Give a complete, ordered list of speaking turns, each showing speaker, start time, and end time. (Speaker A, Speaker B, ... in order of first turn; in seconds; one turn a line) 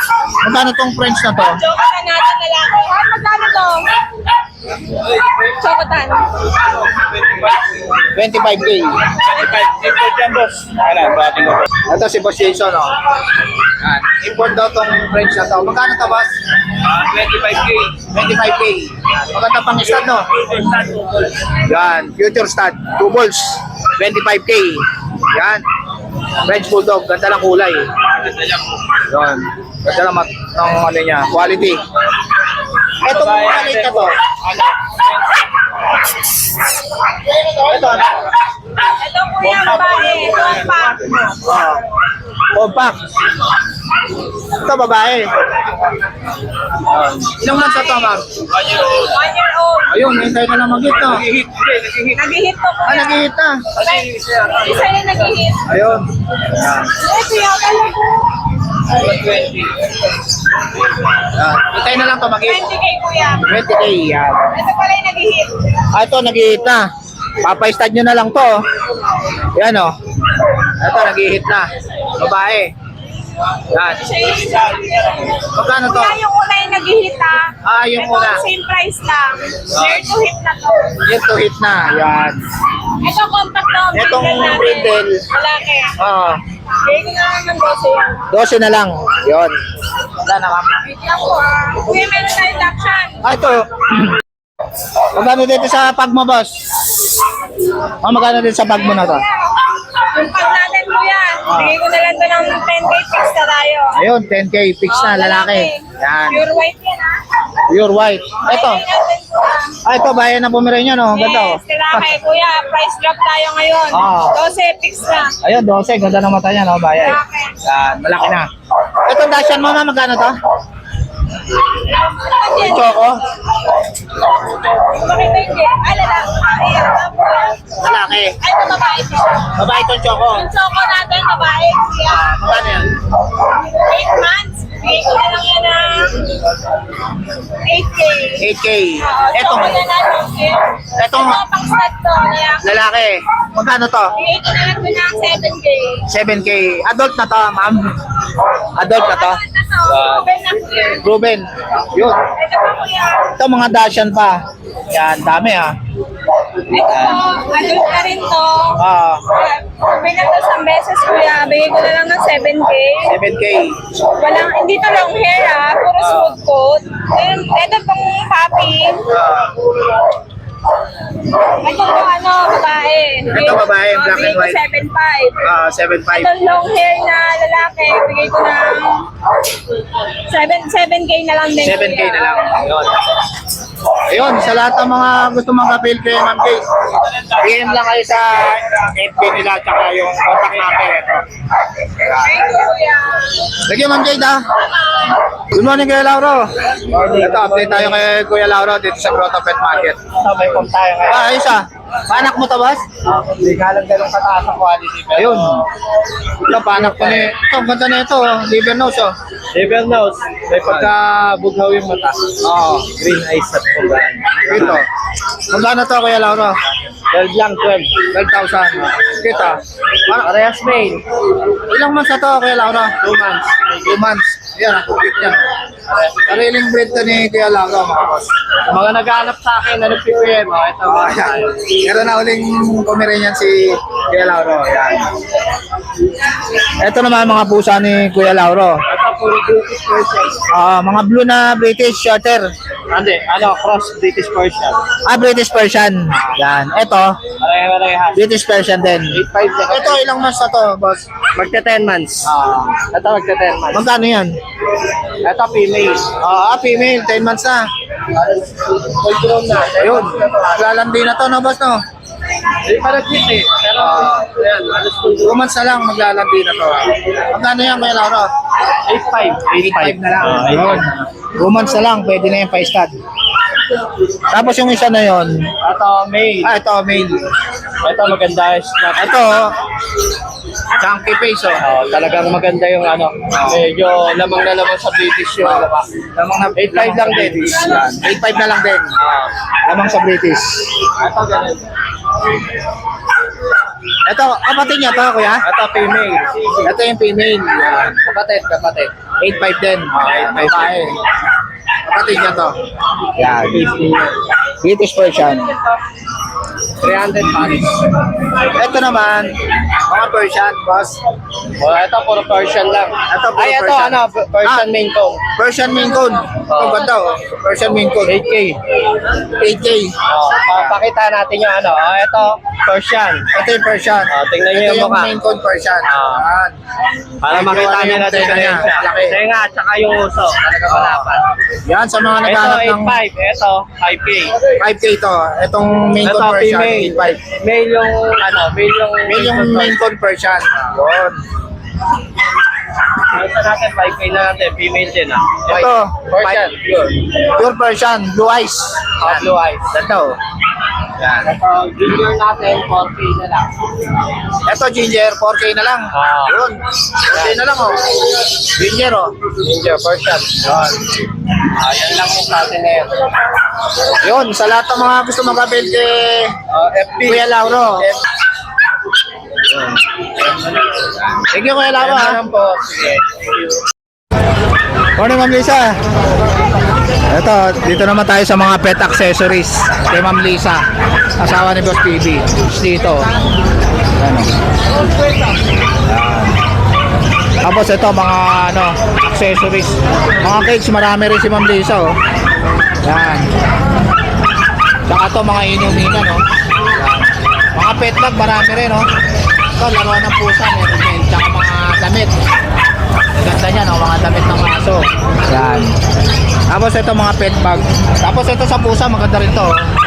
Speaker A: 0.4-1.6
Speaker B: 1.4-3.9
Speaker B: 5.1-6.5
Speaker A: 8.1-9.2
Speaker C: 9.2-11.6
Speaker A: 11.8-13.0
Speaker A: 13.8-16.3
Speaker A: 16.9-20.3
Speaker C: 17.0-17.8
Speaker C: 20.6-21.1
Speaker A: 21.6-25.6
Speaker A: 26.4-27.9
Speaker A: 29.0-31.8
Speaker A: 33.0-34.2
Speaker C: 33.1-35.1
Speaker A: 37.5-38.3
Speaker B: 38.8-41.3
Speaker A: 41.4-41.8
Speaker A: 42.5-43.1
Speaker A: 44.4-45.3
Speaker C: 46.9-47.3
Speaker A: 47.2-48.3
Speaker B: 47.5-48.1
Speaker B: 48.8-50.0
Speaker A: 49.9-51.3
Speaker C: 51.1-52.1
Speaker B: 52.1-55.6
Speaker A: 52.9-53.7
Speaker A: 55.6-56.9
Speaker B: 56.9-58.2
Speaker A: 61.3-62.6
Speaker B: 62.4-63.5
Speaker A: 63.4-64.5
Speaker B: 64.5-65.7
Speaker A: 65.9-66.9
Speaker A: 67.4-68.6
Speaker A: 69.5-70.0
Speaker A: 70.8-72.7
Speaker A: 73.7-74.0
Speaker B: 73.8-81.0
Speaker A: 75.5-76.2
Speaker A: 77.6-78.4
Speaker A: 79.7-80.0
Speaker A: 81.0-82.4
Speaker B: 83.0-85.9
Speaker A: 83.9-85.2
Speaker A: 86.0-86.4
Speaker B: 86.8-88.3
Speaker A: 88.3-89.6
Speaker A: 90.2-90.8
Speaker B: 90.8-93.2
Speaker A: 93.2-94.2
Speaker A: 95.1-97.2
Speaker A: 98.0-99.2
Speaker B: 98.8-104.0
Speaker A: 101.5-101.8
Speaker A: 103.9-106.4
Speaker B: 104.9-107.2
Speaker A: 107.7-108.8
Speaker B: 108.4-109.8
Speaker A: 109.8-112.0
Speaker B: 111.1-115.3
Speaker A: 113.9-114.4
Speaker A: 115.4-120.4
Speaker B: 117.0-117.5
Speaker B: 121.8-123.0
Speaker A: 122.5-123.2
Speaker B: 124.5-127.8
Speaker A: 127.8-128.4
Speaker B: 128.4-132.4
Speaker A: 129.5-130.5
Speaker A: 132.1-133.0
Speaker B: 133.4-136.3
Speaker B: 137.6-142.7
Speaker A: 138.4-139.8
Speaker A: 141.0-141.4
Speaker A: 142.6-144.2
Speaker B: 144.1-146.0
Speaker A: 146.1-147.9
Speaker A: 148.7-149.4
Speaker B: 148.9-151.1
Speaker A: 151.0-152.2
Speaker B: 152.2-153.3
Speaker A: 153.4-155.8
Speaker B: 156.7-158.8
Speaker A: 158.8-159.2
Speaker B: 159.3-163.2
Speaker A: 163.1-163.9
Speaker B: 164.1-169.1
Speaker A: 169.2-169.5
Speaker B: 171.5-175.4
Speaker A: 173.3-174.6
Speaker A: 175.4-176.3
Speaker B: 176.1-179.1
Speaker B: 180.3-182.5
Speaker A: 181.6-182.9
Speaker A: 184.1-191.2
Speaker A: 192.0-192.3
Speaker B: 192.1-193.4
Speaker A: 193.6-194.5
Speaker A: 195.5-196.5
Speaker C: 196.9-198.0
Speaker A: 197.2-200.0
Speaker C: 200.1-201.3
Speaker A: 201.1-202.8
Speaker C: 203.0-205.7
Speaker A: 205.1-205.6
Speaker A: 206.4-209.1
Speaker C: 206.5-207.3
Speaker C: 209.5-214.8
Speaker A: 210.6-210.9
Speaker A: 212.4-212.9
Speaker A: 214.5-214.9
Speaker A: 215.5-216.6
Speaker C: 217.1-218.0
Speaker A: 218.1-220.2
Speaker C: 220.1-221.0
Speaker A: 221.7-222.9
Speaker C: 223.0-223.8
Speaker A: 223.8-225.5
Speaker C: 225.9-226.3
Speaker A: 226.2-228.3
Speaker C: 228.7-231.6
Speaker A: 230.8-234.3
Speaker C: 234.1-235.1
Speaker A: 236.8-238.8
Speaker C: 238.9-240.4
Speaker A: 240.5-242.5
Speaker C: 242.9-244.8
Speaker A: 245.0-247.2
Speaker C: 247.4-248.2
Speaker A: 248.1-251.1
Speaker C: 249.1-250.0
Speaker C: 251.3-253.8
Speaker A: 253.7-254.3
Speaker C: 255.2-256.1
Speaker A: 256.1-257.7
Speaker C: 258.1-260.6
Speaker A: 259.8-261.8
Speaker C: 262.6-265.3
Speaker A: 263.8-264.2
Speaker A: 265.2-268.3
Speaker C: 268.9-271.0
Speaker A: 269.6-272.9
Speaker A: 274.3-275.5
Speaker C: 275.6-276.5
Speaker A: 276.4-277.3
Speaker C: 277.8-279.1
Speaker A: 278.9-279.5
Speaker A: 280.8-281.6
Speaker C: 281.6-285.9
Speaker A: 283.3-283.6
Speaker A: 285.4-288.9
Speaker C: 286.6-287.9
Speaker C: 289.0-289.3
Speaker A: 289.6-290.8
Speaker C: 290.9-291.7
Speaker A: 294.0-295.4
Speaker C: 295.4-296.7
Speaker A: 296.6-297.9
Speaker C: 297.6-298.9
Speaker A: 299.2-301.0
Speaker C: 299.9-300.8
Speaker A: 301.9-302.5
Speaker A: 303.2-303.7
Speaker C: 303.2-304.2
Speaker A: 304.6-305.5
Speaker C: 306.8-308.0
Speaker A: 308.5-309.3
Speaker A: 309.9-311.0
Speaker C: 311.6-315.2
Speaker A: 313.1-314.7
Speaker A: 315.4-318.2
Speaker C: 316.5-316.9
Speaker C: 318.1-318.6
Speaker A: 319.3-320.8
Speaker C: 320.1-323.3
Speaker A: 323.3-326.6
Speaker C: 324.1-325.1
Speaker C: 325.9-326.2
Speaker C: 327.2-331.3
Speaker A: 327.2-329.2
Speaker A: 330.7-331.1
Speaker A: 331.6-333.0
Speaker C: 332.2-334.4
Speaker A: 334.6-337.2
Speaker C: 336.0-339.8
Speaker A: 339.1-341.2
Speaker C: 343.1-347.0
Speaker A: 345.5-346.5
Speaker A: 347.2-350.2
Speaker C: 349.0-349.7
Speaker A: 351.0-351.3
Speaker C: 351.0-353.5
Speaker A: 354.4-359.2
Speaker C: 355.9-356.4
Speaker C: 357.1-357.4
Speaker C: 359.4-360.8
Speaker C: 361.5-363.1
Speaker A: 364.0-366.3
Speaker C: 366.5-368.0
Speaker A: 367.1-367.9
Speaker C: 369.5-371.1
Speaker A: 371.3-372.2
Speaker C: 371.8-373.5
Speaker A: 374.9-375.8
Speaker A: 377.1-380.6
Speaker A: 381.2-383.1
Speaker A: 384.0-384.3
Speaker A: 385.9-386.4
Speaker A: 387.4-391.9
Speaker A: 392.8-393.3
Speaker A: 394.9-398.9
Speaker A: 399.6-402.1
Speaker A: 403.1-405.7
Speaker A: 406.5-409.6